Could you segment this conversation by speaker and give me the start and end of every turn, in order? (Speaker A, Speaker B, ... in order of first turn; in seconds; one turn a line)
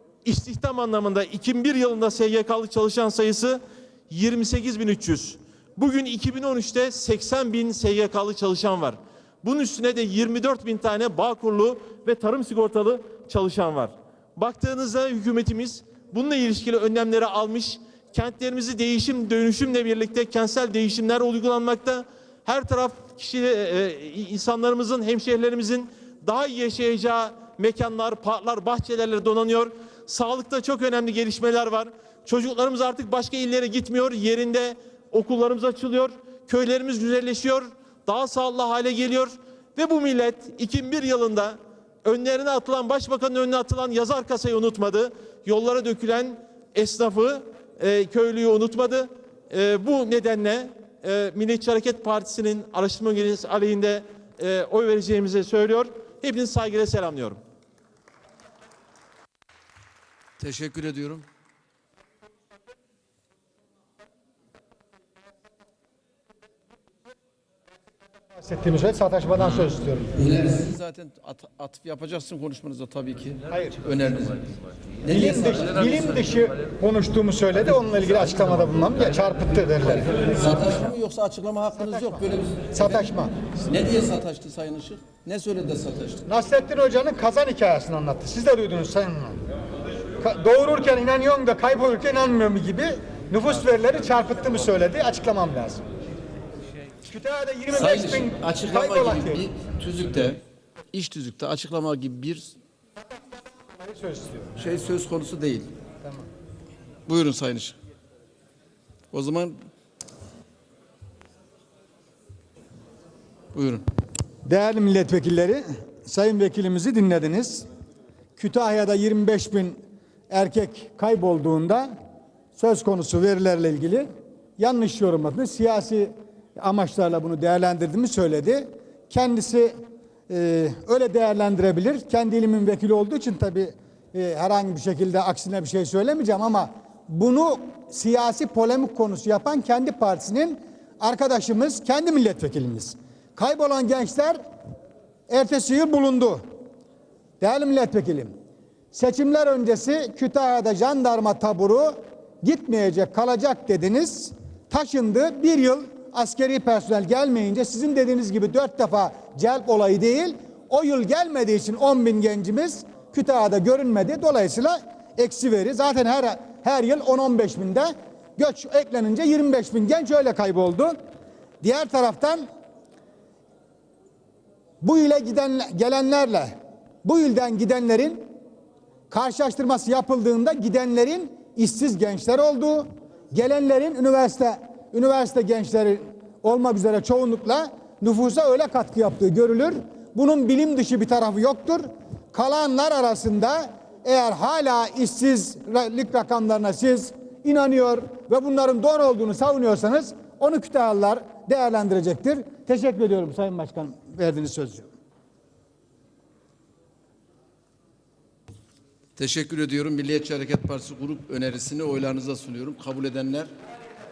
Speaker A: 0.2-57.4
Speaker B: 60.4-61.2
Speaker C: 68.4-70.1
Speaker B: 70.2-74.5
Speaker C: 73.5-73.8
Speaker B: 75.0-76.0
Speaker C: 75.1-80.3
Speaker B: 80.3-86.2
Speaker C: 81.8-83.3
Speaker C: 86.3-89.4
Speaker C: 90.2-95.8
Speaker C: 97.1-99.4
Speaker B: 97.7-100.4
Speaker B: 100.9-102.6
Speaker C: 103.8-104.5
Speaker B: 104.6-105.7
Speaker B: 107.1-107.8
Speaker B: 109.1-109.6
Speaker B: 113.5-113.8
Speaker C: 114.5-117.7
Speaker C: 118.4-119.8
Speaker C: 120.3-121.9
Speaker C: 122.5-129.8
Speaker C: 130.3-144.4
Speaker C: 145.3-146.4
Speaker C: 147.4-148.3
Speaker C: 148.9-171.0
Speaker C: 171.6-172.4
Speaker C: 174.8-178.3
Speaker C: 179.1-204.9
Speaker B: 209.2-213.5